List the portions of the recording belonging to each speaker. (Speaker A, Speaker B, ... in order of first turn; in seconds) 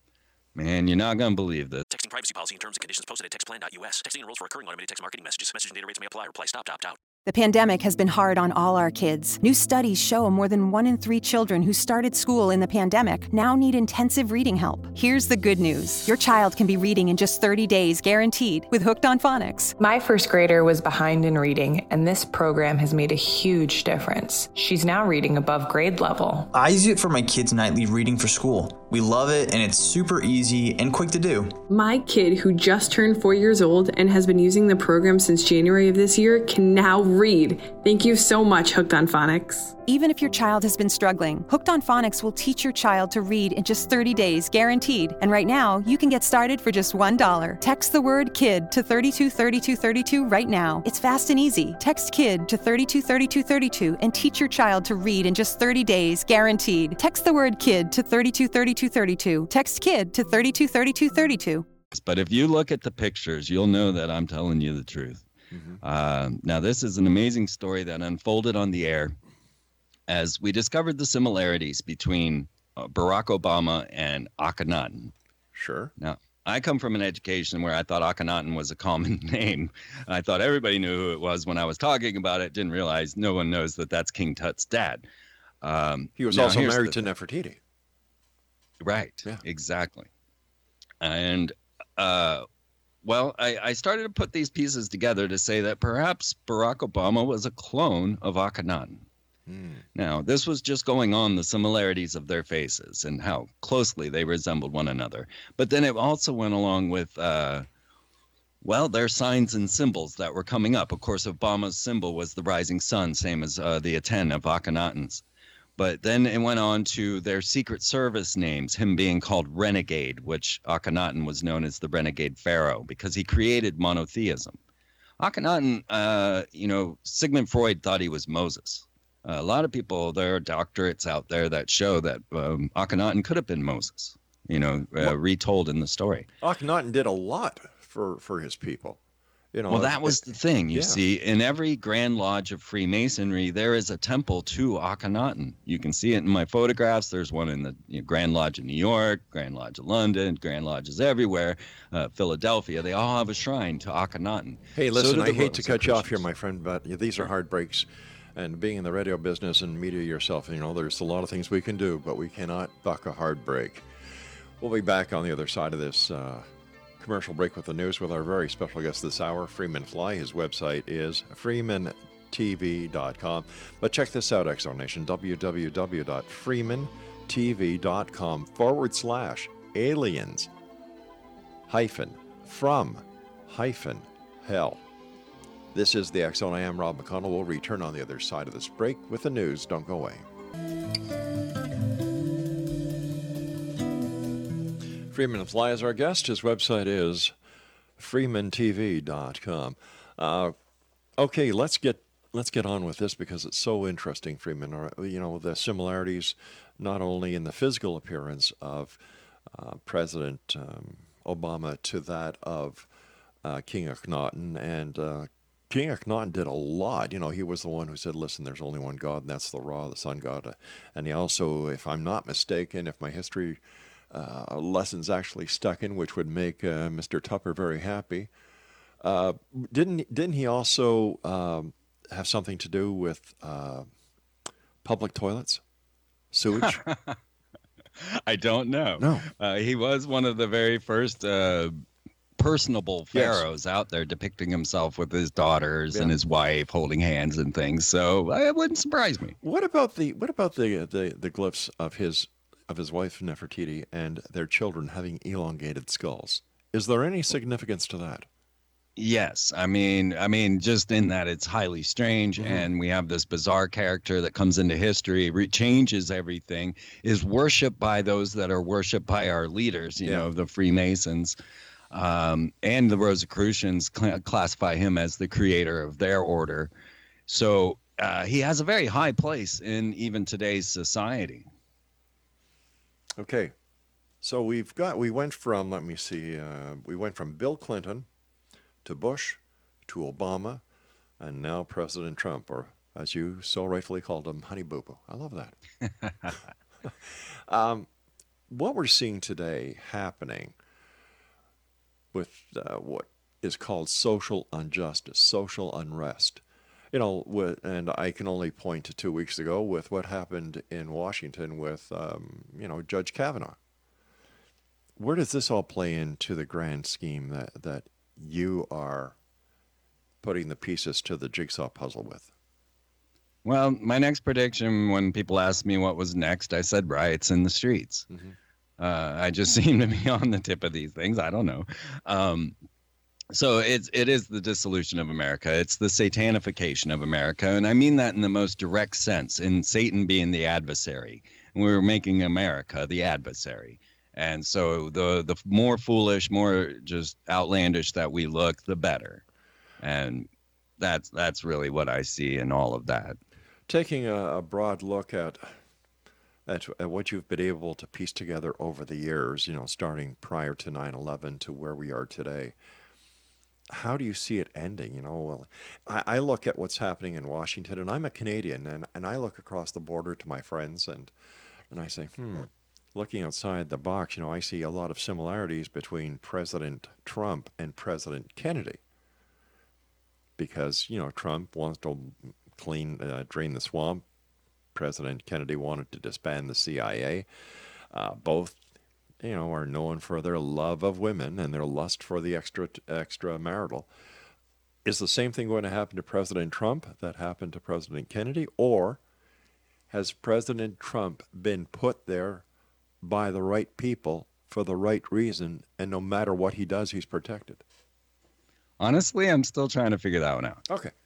Speaker A: 0.5-1.9, 61.9-65.2, 65.8-69.2, 70.1-75.1, 76.0-85.0, 85.6-87.1, 88.8-90.1, 91.0-92.5, 93.0-99.0, 99.9-107.7, 108.6-115.2, 115.8-124.6, 125.2-136.3, 139.7-156.2, 236.6-237.2, 238.0-241.7, 242.3-249.4, 258.9-271.4, 271.9-276.7, 277.3-281.5, 296.0-296.3, 323.4-328.1, 328.8-332.6, 333.3-349.2, 349.8-353.2, 408.8-410.6
Speaker B: 1.9-7.0
Speaker C: 7.2-19.7, 39.9-61.6
Speaker D: 19.8-26.5
Speaker E: 26.5-31.6
Speaker F: 31.7-39.7
Speaker G: 65.5-65.8, 75.5-75.9, 86.2-87.6, 99.5-99.8, 136.4-139.0, 139.5-141.0, 154.7-163.8, 164.6-166.4, 167.0-180.5, 181.7-184.8, 185.7-190.2, 195.1-197.3, 198.0-200.5, 201.2-209.0, 209.5-212.9, 213.4-223.6, 224.1-228.3, 229.0-233.9, 234.8-235.6, 236.3-236.8, 239.0-239.2, 243.1-243.4, 249.4-258.3, 262.4-262.7, 283.2-283.5, 284.2-288.1, 288.8-290.6, 291.2-295.5, 296.8-297.9, 298.5-300.5, 302.1-313.6, 315.0-319.1, 320.2-322.3, 353.7-355.5, 356.5-362.5, 363.7-371.1, 371.7-378.8, 380.4-384.0, 384.7-387.2, 387.9-388.6, 389.2-393.9, 394.8-399.0, 399.9-402.4, 403.0-407.6